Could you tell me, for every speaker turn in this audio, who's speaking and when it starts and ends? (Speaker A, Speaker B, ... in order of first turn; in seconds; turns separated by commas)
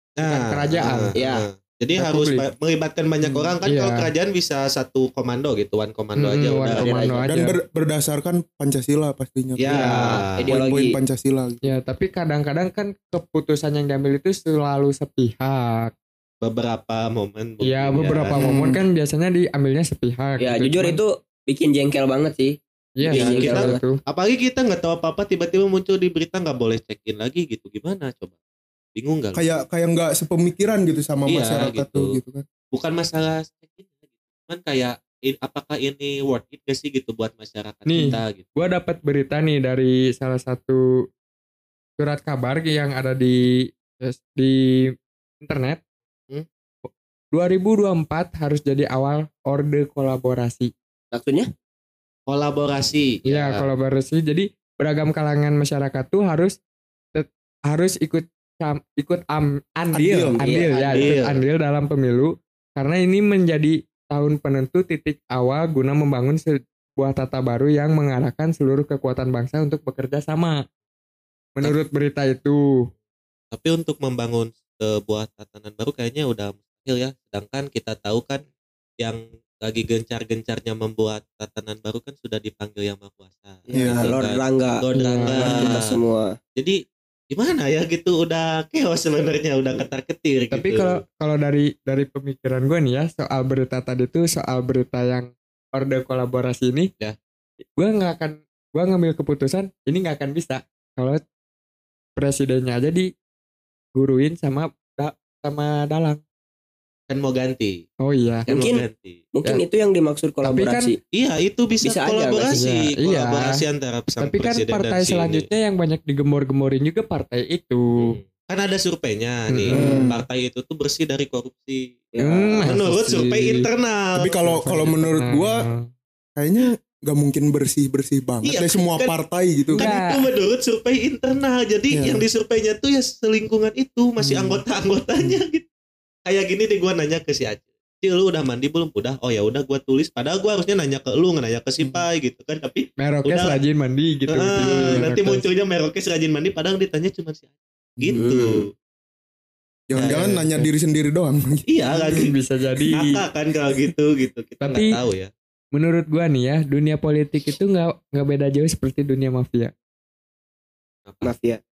Speaker A: 0.2-6.9, Speaker B: 0.2-1.1, Speaker C: 1.2-1.4, Speaker B: 2.0-2.5, Speaker B: 3.6-4.1, Speaker B: 6.2-7.6, Speaker C: 6.8-7.3, Speaker D: 7.3-11.6, Speaker A: 9.6-10.4, Speaker C: 9.7-11.0, Speaker B: 11.6-15.9, Speaker A: 16.4-18.4, Speaker B: 17.6-21.0, Speaker D: 18.4-18.8, Speaker C: 20.4-23.8, Speaker B: 23.0-24.0, Speaker A: 23.1-28.4, Speaker A: 28.9-29.4, Speaker D: 29.3-32.5, Speaker A: 31.3-32.2, Speaker A: 32.7-33.9, Speaker A: 34.5-38.5, Speaker B: 37.9-40.8, Speaker B: 42.0-45.8, Speaker B: 46.9-50.7, Speaker C: 51.1-51.5, Speaker A: 52.3-53.6, Speaker B: 53.2-56.6, Speaker B: 57.1-70.6, Speaker D: 59.9-60.7, Speaker C: 60.3-61.1, Speaker A: 60.9-61.4, Speaker B: 71.6-72.9, Speaker A: 73.5-78.4, Speaker A: 79.0-86.0, Speaker C: 83.7-86.3, Speaker D: 83.7-84.1, Speaker B: 85.0-85.8, Speaker A: 87.3-91.0, Speaker B: 90.5-96.9, Speaker B: 97.8-101.2, Speaker B: 102.2-103.1, Speaker B: 104.0-106.2, Speaker A: 107.1-107.8, Speaker B: 108.0-108.5, Speaker A: 108.5-109.2, Speaker C: 108.5-111.0, Speaker B: 110.4-110.9, Speaker A: 111.1-115.5, Speaker C: 111.8-112.6, Speaker B: 112.5-113.6, Speaker B: 114.2-118.2, Speaker A: 118.0-124.3, Speaker B: 119.5-119.9, Speaker D: 119.7-120.2, Speaker C: 119.8-120.0, Speaker C: 122.1-122.7, Speaker B: 122.2-123.7, Speaker D: 124.2-125.6, Speaker B: 124.5-125.9, Speaker D: 126.4-129.9, Speaker A: 128.4-129.1, Speaker B: 129.7-130.2, Speaker A: 129.8-135.7, Speaker D: 131.9-132.2, Speaker D: 134.2-134.6, Speaker A: 136.3-143.6, Speaker B: 143.0-145.5, Speaker A: 144.3-148.7, Speaker C: 148.1-148.7, Speaker D: 149.9-152.2, Speaker A: 150.0-150.4, Speaker B: 150.1-150.7, Speaker A: 151.7-152.3, Speaker B: 152.1-153.2, Speaker A: 152.9-155.3, Speaker B: 154.6-155.0, Speaker B: 155.7-159.7, Speaker A: 161.1-161.3, Speaker C: 161.2-161.6